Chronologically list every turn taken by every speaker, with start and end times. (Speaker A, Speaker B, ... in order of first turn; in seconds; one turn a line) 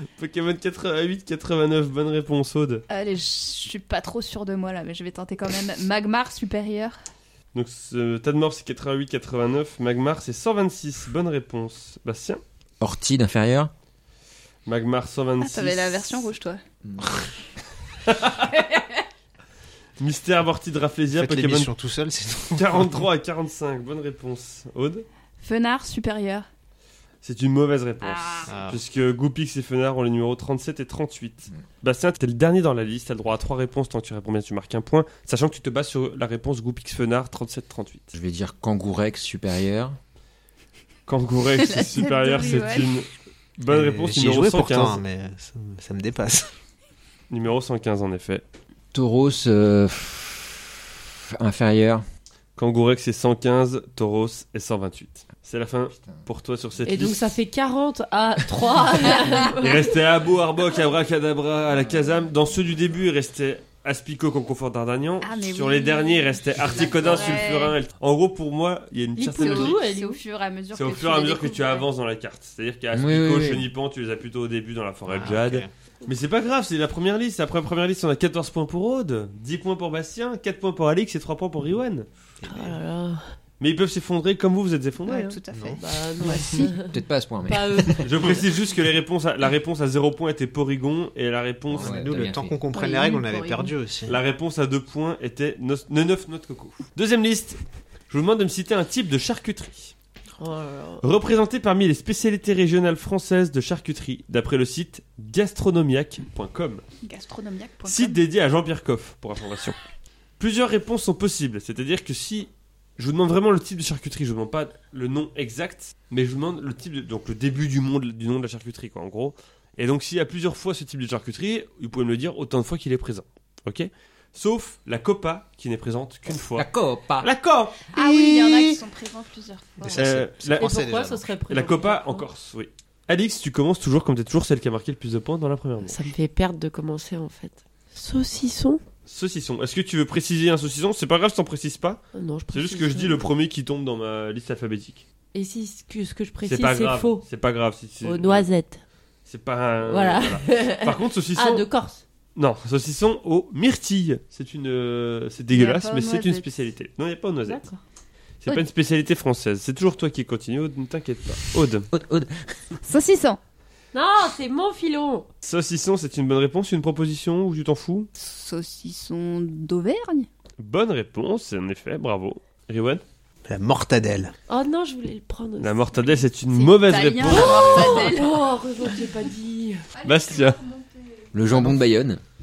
Speaker A: 0.2-2.8
Speaker B: 2.9-7.0
Speaker A: 7.5-12.4
Speaker C: 12.8-13.7
Speaker A: 14.7-16.3
Speaker B: 15.4-16.6
Speaker C: 16.9-17.2
Speaker A: 18.1-18.5
Speaker B: 18.5-19.0
Speaker A: 20.0-21.7
Speaker D: 21.1-23.0
Speaker A: 22.5-25.1
Speaker B: 25.4-26.5
Speaker A: 27.2-38.1
Speaker B: 28.0-28.5
Speaker D: 28.5-28.8
Speaker C: 38.1-40.0
Speaker A: 41.1-45.0
Speaker B: 41.6-42.9
Speaker D: 43.7-46.5
Speaker A: 47.3-48.4
Speaker C: 48.9-52.0
Speaker A: 52.6-57.3
Speaker C: 56.0-56.3
Speaker E: 56.9-59.9
Speaker A: 59.5-69.8
Speaker B: 65.2-67.8
Speaker E: 69.2-70.2
Speaker B: 69.3-71.9
Speaker A: 70.7-82.1
Speaker C: 72.9-73.7
Speaker D: 75.1-75.7
Speaker D: 82.4-82.8
Speaker E: 82.5-83.3
Speaker A: 83.6-85.4
Speaker B: 85.1-86.7
Speaker D: 85.5-85.8
Speaker E: 85.8-88.3
Speaker C: 86.8-88.2
Speaker A: 88.0-92.2
Speaker C: 91.7-92.6
Speaker D: 91.8-94.2
Speaker E: 92.7-93.7
Speaker A: 94.1-100.0
Speaker E: 100.4-101.1
Speaker A: 101.0-106.8
Speaker B: 107.0-108.2
Speaker A: 107.8-109.8
Speaker A: 110.4-126.7
Speaker C: 126.5-127.3
Speaker A: 127.2-127.9
Speaker B: 127.9-130.0
Speaker C: 128.0-128.6
Speaker D: 129.8-131.3
Speaker A: 130.0-130.8
Speaker E: 130.6-132.3
Speaker A: 131.5-136.1
Speaker E: 135.8-138.8
Speaker A: 139.1-145.1
Speaker E: 142.1-143.3
Speaker E: 145.3-147.2
Speaker A: 146.4-148.5
Speaker E: 148.0-148.8
Speaker A: 149.3-151.7
Speaker E: 149.8-152.0
Speaker A: 152.4-157.6
Speaker B: 155.5-156.5
Speaker E: 157.5-157.8
Speaker A: 158.4-161.9
Speaker C: 161.9-162.7
Speaker B: 162.8-163.4
Speaker E: 163.9-165.3
Speaker A: 165.4-168.1
Speaker B: 168.2-170.3
Speaker A: 170.6-173.0
Speaker D: 173.5-174.3
Speaker E: 174.5-176.3
Speaker A: 175.6-178.0
Speaker B: 176.5-178.4
Speaker E: 177.2-179.9
Speaker B: 179.9-181.3
Speaker A: 180.0-180.6
Speaker C: 181.3-182.2